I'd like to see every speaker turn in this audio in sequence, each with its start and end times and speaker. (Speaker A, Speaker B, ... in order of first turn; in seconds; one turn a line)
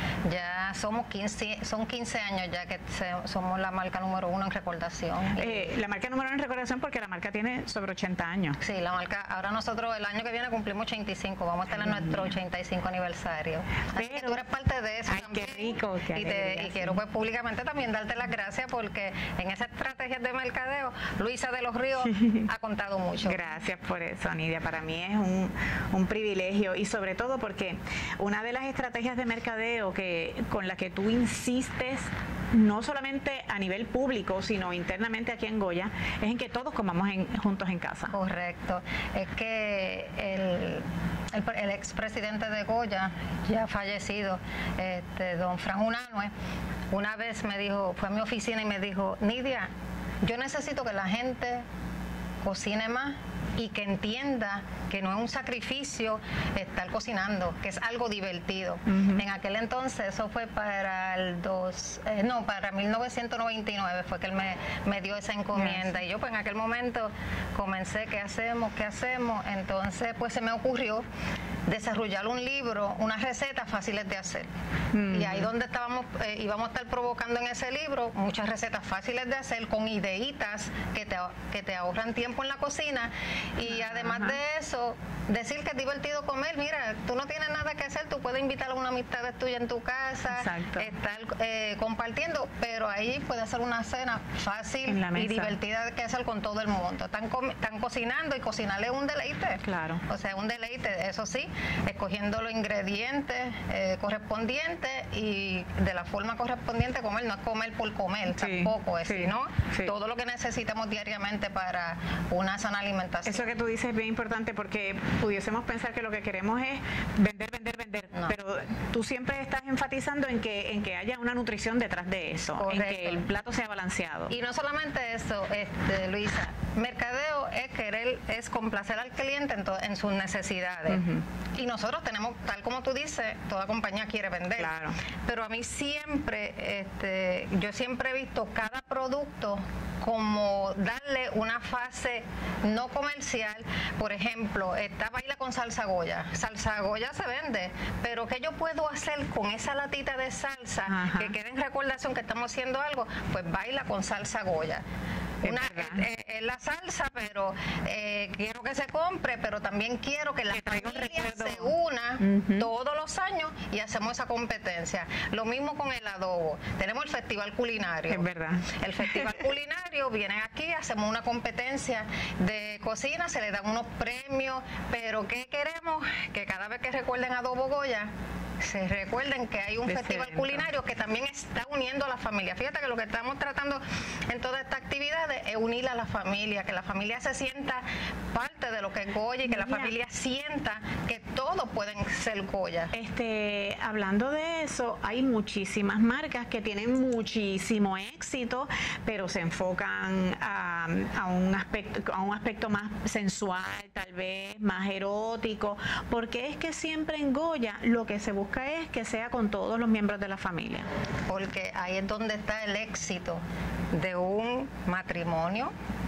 Speaker A: 0.2-5.7
Speaker B: 5.4-8.6
Speaker A: 8.6-23.4
Speaker B: 11.8-12.3
Speaker B: 14.0-14.4
Speaker B: 15.1-17.0
Speaker B: 22.0-22.5
Speaker B: 23.2-38.1
Speaker A: 38.1-46.3
Speaker A: 46.9-49.7
Speaker A: 50.2-51.6
Speaker A: 52.4-71.1
Speaker B: 58.9-59.2
Speaker B: 65.5-65.9
Speaker A: 71.7-74.5
Speaker B: 74.9-75.5
Speaker A: 75.0-113.5
Speaker B: 83.7-84.4
Speaker B: 90.3-90.9
Speaker B: 94.9-95.5
Speaker B: 99.6-100.0
Speaker B: 108.3-109.9
Speaker B: 113.3-124.3
Speaker A: 122.5-123.2
Speaker A: 124.3-134.7
Speaker B: 130.9-131.2
Speaker B: 134.6-135.0
Speaker A: 135.2-154.8
Speaker B: 150.9-151.3
Speaker A: 155.4-192.9
Speaker B: 155.4-156.1
Speaker B: 160.5-162.7
Speaker B: 168.1-169.3
Speaker B: 179.9-180.7
Speaker B: 189.4-189.9
Speaker B: 192.9-210.9
Speaker A: 211.3-215.7